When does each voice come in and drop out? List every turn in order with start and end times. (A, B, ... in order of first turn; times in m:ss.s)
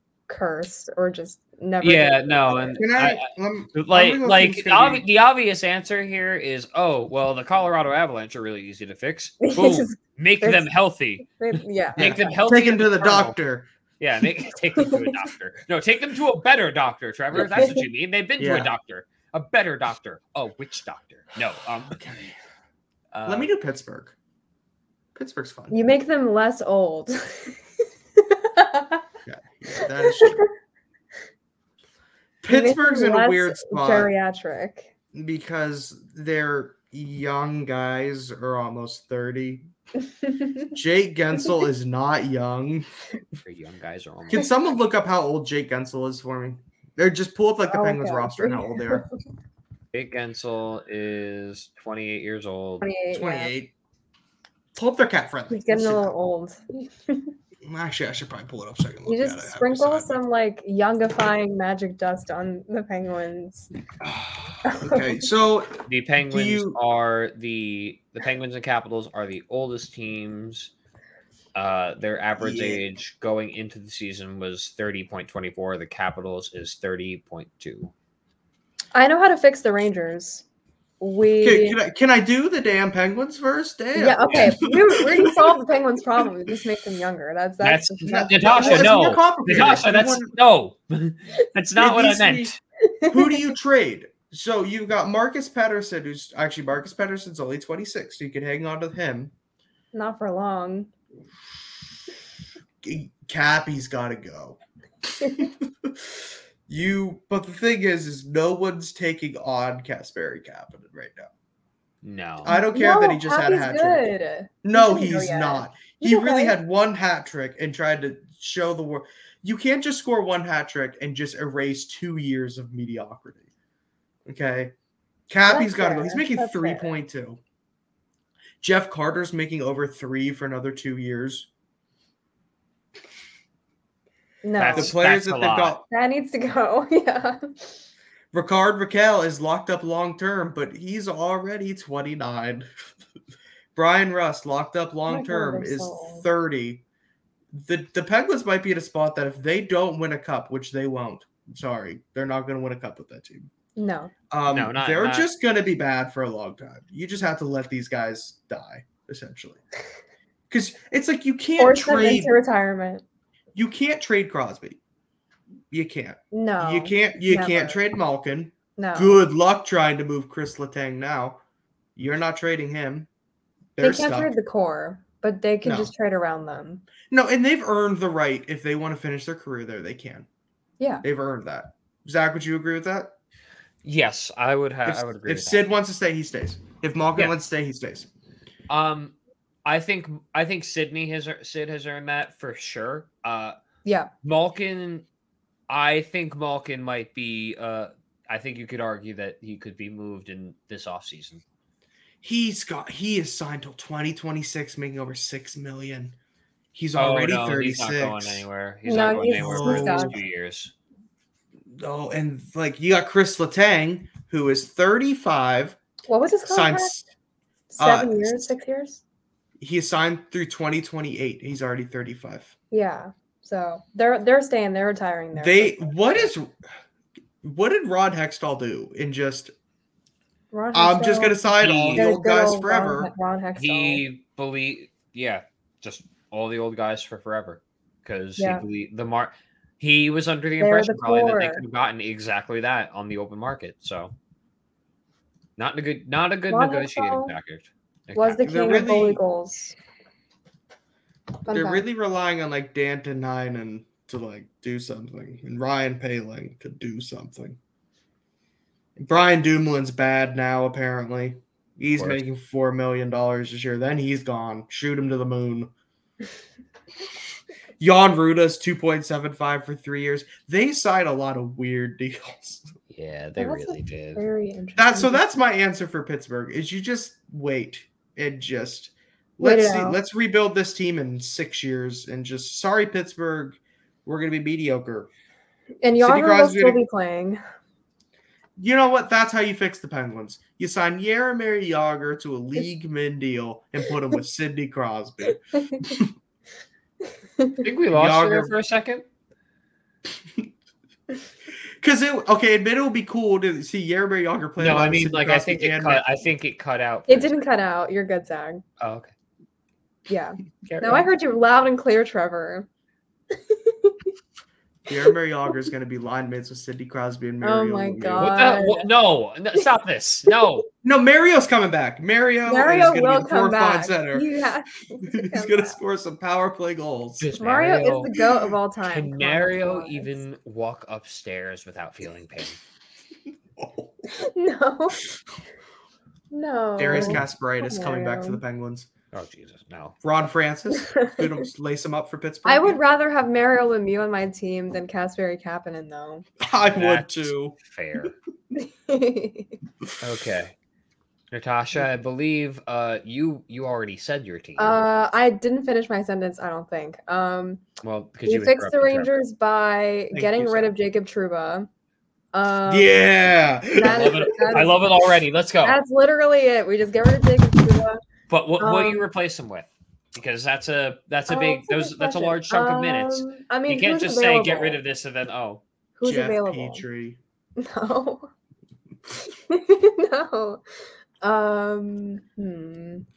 0:00.3-0:02.8 A
0:01.8-0:13.4 B
0:02.8-0:05.0 C
0:09.4-0:10.7 A
0:11.2-0:12.4 A
0:12.0-0:13.7 C
0:14.0-0:22.0 B
0:14.9-0:15.1 A
0:17.5-0:17.8 A
0:18.4-0:18.7 C
0:21.9-0:22.3 C
0:23.1-0:23.5 B
0:23.2-0:24.1 C
0:25.2-0:25.7 C
0:25.7-0:27.6 A
0:28.2-0:29.0 A
0:29.2-0:30.4 C
0:29.8-0:30.5 A
0:32.4-0:34.1 C
0:32.5-0:34.9 A
0:35.1-0:39.7 C
0:40.2-0:40.7 A
0:40.7-0:42.9 C
0:43.4-0:44.5 B
0:44.3-0:49.0 C
0:47.7-0:49.1 A
0:49.9-0:52.9 B
0:52.8-0:53.5 A
0:53.1-0:53.7 C
0:54.7-0:56.1 C
0:55.5-0:57.3 A
0:57.6-1:00.2 C
0:59.1-1:03.7 A
1:04.0-1:06.8 C
1:04.6-1:05.1 A
1:05.9-1:10.7 B
1:11.5-1:17.9 B
1:12.4-1:12.8 C
1:18.9-1:20.4 A
1:21.0-1:21.8 A
1:21.4-1:25.6 C
1:24.0-1:28.9 A
1:24.3-1:24.6 B
1:27.6-1:32.6 B
1:28.0-1:30.3 C
1:31.8-1:32.5 C
1:32.8-1:33.4 A
1:33.1-1:39.3 C
1:39.9-1:40.9 A
1:42.8-1:44.6 C
1:45.1-1:46.0 C
1:46.7-1:51.3 C
1:52.0-1:52.5 B
1:52.4-1:54.0 C
1:52.5-1:56.6 A
1:54.6-2:03.4 C
2:04.2-2:04.7 C
2:05.3-2:07.4 C
2:05.5-2:06.9 A
2:08.6-2:11.5 C
2:14.4-2:14.9 A
2:14.6-2:15.8 B
2:14.7-2:15.8 C
2:15.9-2:17.8 A
2:18.3-2:22.7 C
2:23.7-2:26.8 C
2:25.1-2:26.2 A
2:27.5-2:33.5 C
2:33.8-2:34.1 A
2:34.3-2:39.6 C
2:34.5-2:35.3 B
2:40.5-2:42.3 C
2:41.6-2:43.0 A
2:43.5-2:44.8 C
2:45.7-2:51.4 C
2:46.3-2:47.8 A
2:48.8-2:49.2 A
2:52.0-2:53.1 C
2:53.8-2:54.3 C
2:53.8-2:56.8 A
2:55.6-2:55.9 C
2:57.1-3:00.2 C
3:01.0-3:03.1 C
3:03.8-3:05.6 B
3:04.8-3:08.1 C
3:08.7-3:13.6 B
3:13.8-3:14.1 A
3:14.2-3:15.0 B
3:15.7-3:21.4 B
3:22.2-3:26.1 C
3:26.7-3:28.4 C
3:26.9-3:30.7 B
3:28.8-3:30.1 A
3:29.2-3:30.2 C
3:31.7-3:35.8 C
3:36.1-3:36.9 A
3:36.5-3:37.0 C
3:37.7-3:39.0 A
3:37.8-3:38.5 C
3:39.6-3:42.5 C
3:42.7-3:46.3 A
3:45.3-3:46.5 C
3:47.4-3:49.5 C
3:50.5-3:54.0 A
3:50.7-3:53.1 C
3:51.6-3:52.0 B
3:53.6-4:04.1 B
3:58.4-3:58.6 A
4:00.6-4:01.6 A
4:05.6-4:08.5 B
4:06.5-4:07.3 A
4:08.1-4:09.7 A
4:08.4-4:09.2 C
4:11.4-4:11.8 A
4:11.5-4:17.6 C
4:19.0-4:25.7 C
4:22.0-4:22.2 B
4:27.8-4:32.7 C
4:32.9-4:34.2 B
4:33.4-4:35.3 A
4:34.8-4:45.1 C
4:39.4-4:40.0 A
4:45.8-4:47.4 A
4:46.0-4:46.8 C
4:48.6-4:56.1 C
4:55.6-4:55.9 A
4:57.4-4:57.6 A
4:57.6-4:59.0 B
4:57.9-4:58.5 C
5:01.8-5:06.0 C
5:04.6-5:07.4 B
5:07.1-5:08.6 A
5:08.8-5:09.1 B
5:10.1-5:12.7 A
5:10.6-5:11.1 B
5:13.3-5:14.1 A
5:14.9-5:18.3 C
5:17.4-5:18.9 A
5:18.2-5:20.6 B
5:20.8-5:24.3 C
5:22.5-5:25.8 A
5:25.0-5:27.3 C
5:27.2-5:28.1 B
5:27.4-5:30.2 A
5:28.9-5:32.6 B
5:33.6-5:33.9 C
5:34.1-5:35.0 A
5:36.3-5:38.4 A
5:36.8-5:38.9 C
5:36.9-5:37.2 B
5:39.1-5:40.0 B
5:40.0-5:42.8 C
5:40.8-5:41.3 A
5:42.4-5:46.2 A
5:46.4-5:47.6 C
5:46.7-5:48.1 B
5:48.5-5:49.5 A
5:50.0-5:50.5 B
5:51.3-5:54.8 B
5:54.6-5:57.6 A
5:57.8-5:59.1 B
5:58.2-6:01.7 A
6:00.1-6:00.7 C
6:02.3-6:03.0 A
6:02.7-6:04.3 C
6:03.8-6:04.8 A
6:03.8-6:05.8 B
6:05.6-6:08.0 A
6:08.3-6:15.6 B
6:08.6-6:09.0 A
6:11.3-6:14.8 A
6:16.0-6:16.8 A
6:16.0-6:17.2 C
6:17.6-6:18.3 A
6:19.2-6:20.6 A
6:21.2-6:23.0 A